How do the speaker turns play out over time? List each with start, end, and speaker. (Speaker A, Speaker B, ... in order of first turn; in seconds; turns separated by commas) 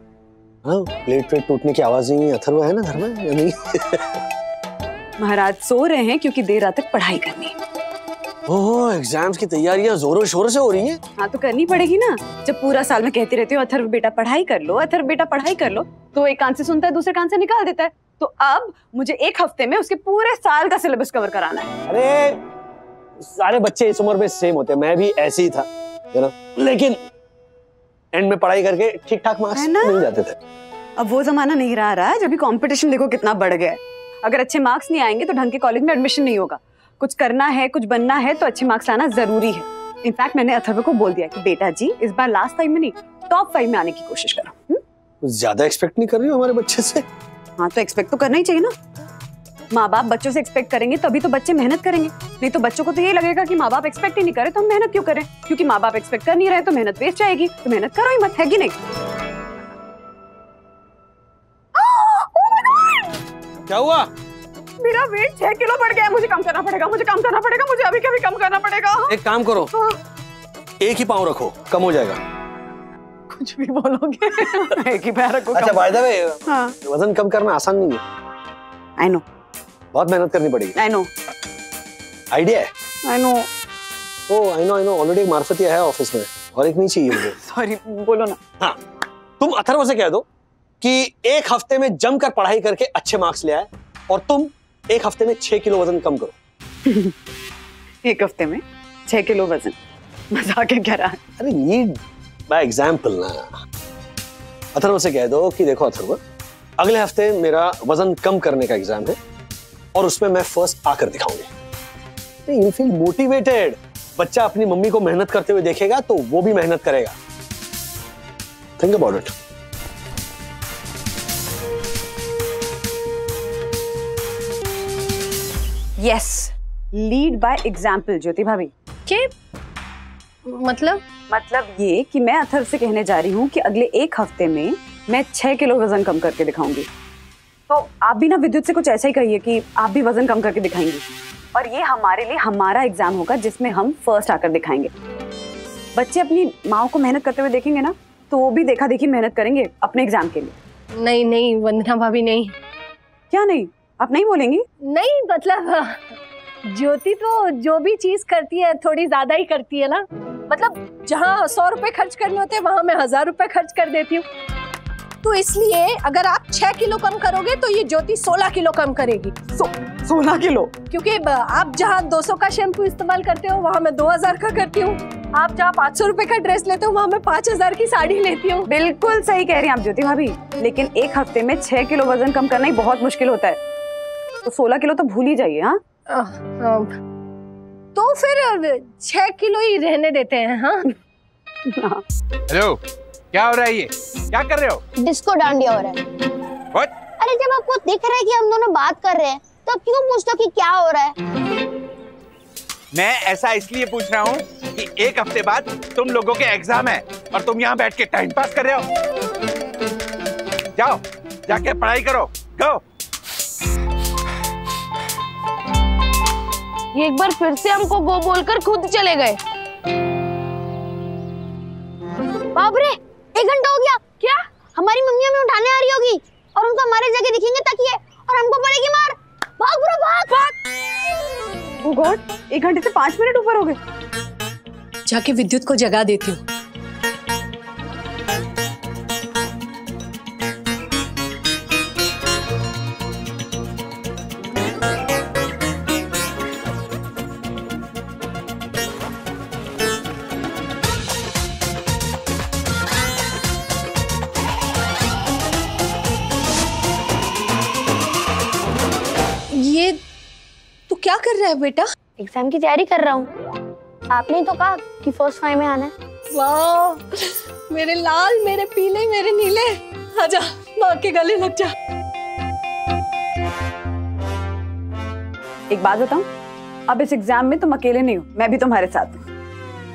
Speaker A: 0.6-4.0, Speaker B: 5.2-7.6, Speaker A: 8.5-11.0, Speaker B: 11.2-21.7, Speaker A: 21.9-22.4, Speaker A: 23.2-27.0, Speaker A: 28.1-30.4, Speaker B: 29.6-30.0, Speaker B: 31.0-44.8, Speaker A: 45.2-47.0, Speaker B: 47.6-48.7, Speaker B: 49.7-58.7, Speaker B: 61.8-63.0, Speaker A: 63.7-64.1, Speaker B: 64.8-69.2, Speaker A: 69.1-69.7, Speaker A: 70.8-72.2, Speaker B: 73.3-76.8, Speaker A: 75.5-78.0, Speaker B: 79.0-79.2, Speaker A: 79.9-80.8, Speaker B: 80.8-81.1, Speaker A: 82.3-82.7, Speaker B: 83.1-83.5, Speaker A: 84.3-87.4, Speaker B: 87.1-88.4, Speaker A: 89.4-90.2, Speaker A: 90.8-96.3, Speaker B: 96.9-97.1, Speaker B: 98.0-99.8, Speaker B: 100.3-101.2, Speaker A: 101.4-102.0, Speaker A: 102.5-103.6, Speaker A: 104.8-106.2, Speaker A: 106.8-109.2, Speaker A: 110.0-111.5, Speaker A: 112.5-117.2, Speaker A: 118.8-119.3, Speaker B: 126.0-128.7, Speaker C: 130.5-131.0, Speaker B: 131.3-136.9, Speaker B: 137.7-141.0, Speaker B: 141.6-144.9, Speaker B: 146.0-150.6, Speaker C: 151.0-152.5, Speaker B: 153.3-154.7, Speaker C: 154.8-156.2, Speaker C: 156.7-164.2, Speaker C: 165.2-169.4, Speaker B: 169.6-170.7, Speaker C: 170.9-178.7, Speaker B: 178.7-183.6, Speaker B: 184.4-185.8, Speaker C: 186.1-186.9, Speaker C: 187.9-190.8, Speaker B: 191.7-192.0, Speaker D: 192.5-192.8, Speaker D: 193.3-194.8, Speaker E: 195.0-196.0, Speaker E: 197.2-201.2, Speaker D: 202.9-208.8, Speaker D: 210.8-212.8, Speaker F: 216.9-219.4, Speaker E: 222.6-224.2, Speaker E: 224.8-230.5, Speaker B: 231.8-233.8, Speaker C: 235.1-236.4, Speaker C: 259.5-260.0, Speaker C: 260.9-261.9, Speaker E: 262.2-263.3, Speaker E: 264.1-265.9, Speaker C: 266.3-271.7, Speaker B: 275.7-276.3, Speaker B: 276.9-279.3